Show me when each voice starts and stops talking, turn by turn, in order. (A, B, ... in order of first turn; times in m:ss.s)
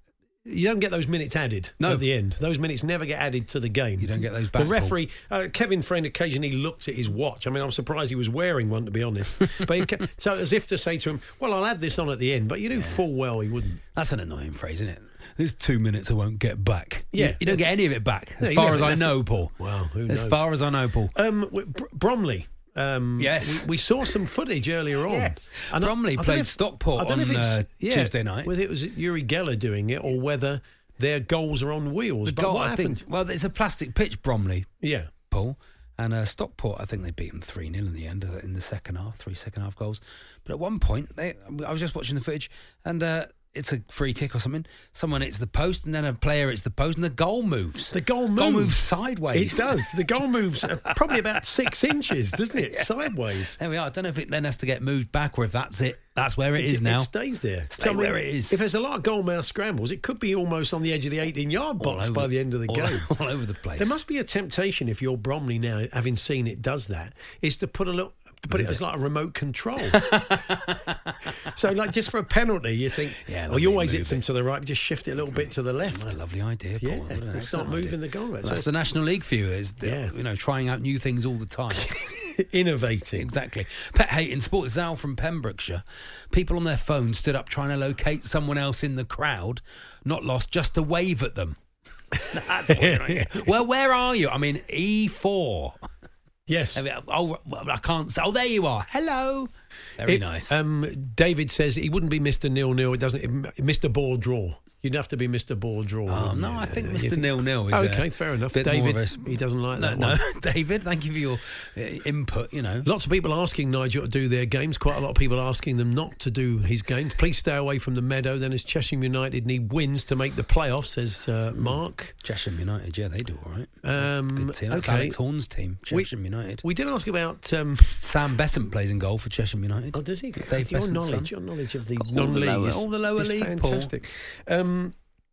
0:00.4-0:13.8 A
0:04.0-0:05.0 B
0:12.7-0:13.0 B
0:13.9-0:19.5 B
0:17.1-0:17.7 A
0:18.4-0:20.4 A
0:20.1-0:21.1 B
0:21.1-0:33.0 A
0:23.2-0:23.7 B
0:25.0-0:28.5 B
0:32.2-0:34.7 B
0:34.8-0:35.1 A
0:35.3-0:49.9 B
0:47.9-0:53.6 A
0:53.6-0:57.1 B
0:56.6-1:03.1 A
0:57.7-0:58.6 B
1:01.8-1:04.0 B
1:03.8-1:10.1 A
1:08.5-1:08.8 B
1:09.9-1:11.3 B
1:11.5-1:16.1 A
1:13.2-1:14.2 B
1:15.3-1:21.9 B
1:16.8-1:18.7 A
1:19.8-1:20.1 A
1:21.7-1:23.3 A
1:23.2-1:31.6 B
1:32.2-1:35.8 B
1:32.7-1:33.5 A
1:36.5-1:36.8 A
1:36.7-1:40.5 B
1:40.0-1:50.2 A
1:46.1-1:52.9 B
1:52.8-2:02.1 A
2:01.6-2:06.6 B
2:03.8-2:05.2 A
2:05.9-2:08.0 A
2:08.0-2:11.3 B
2:09.9-2:14.9 A
2:12.0-2:13.9 B